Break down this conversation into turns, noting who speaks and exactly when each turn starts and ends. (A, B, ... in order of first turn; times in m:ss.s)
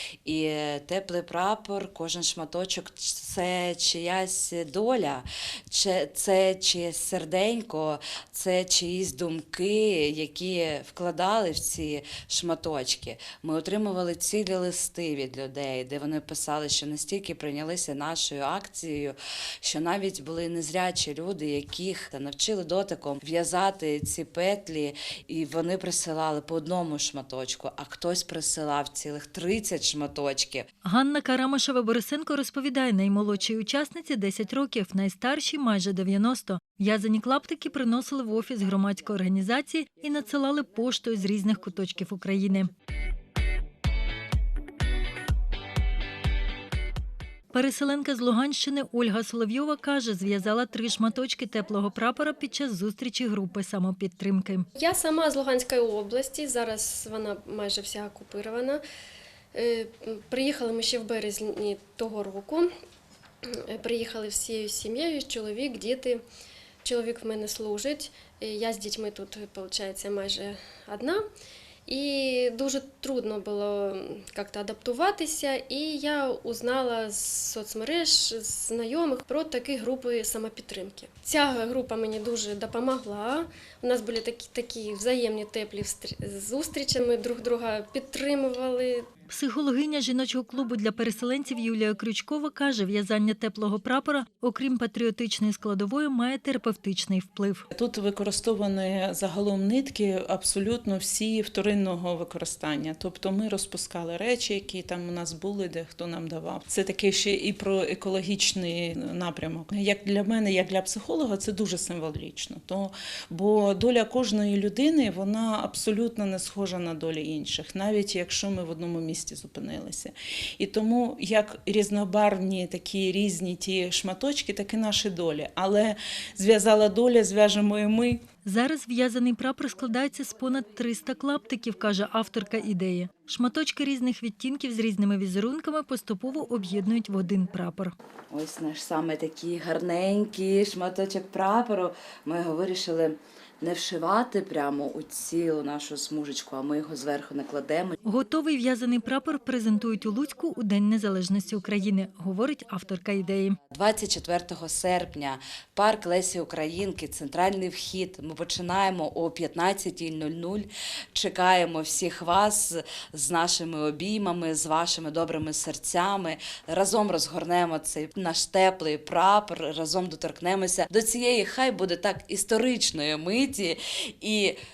0:00.2-0:30.6 A
0:30.8-0:42.7 B
0:47.5-0:54.6 B
0:54.8-0:58.8 C
0:59.5-1:02.7 C
1:03.6-1:06.2 C
1:06.8-1:11.2 C
1:11.9-1:29.1 C
1:29.3-1:37.6 B
1:37.7-2:08.2 D
2:08.4-2:17.9 B
2:18.3-2:28.0 A
2:28.0-2:33.6 B
2:33.7-2:54.6 A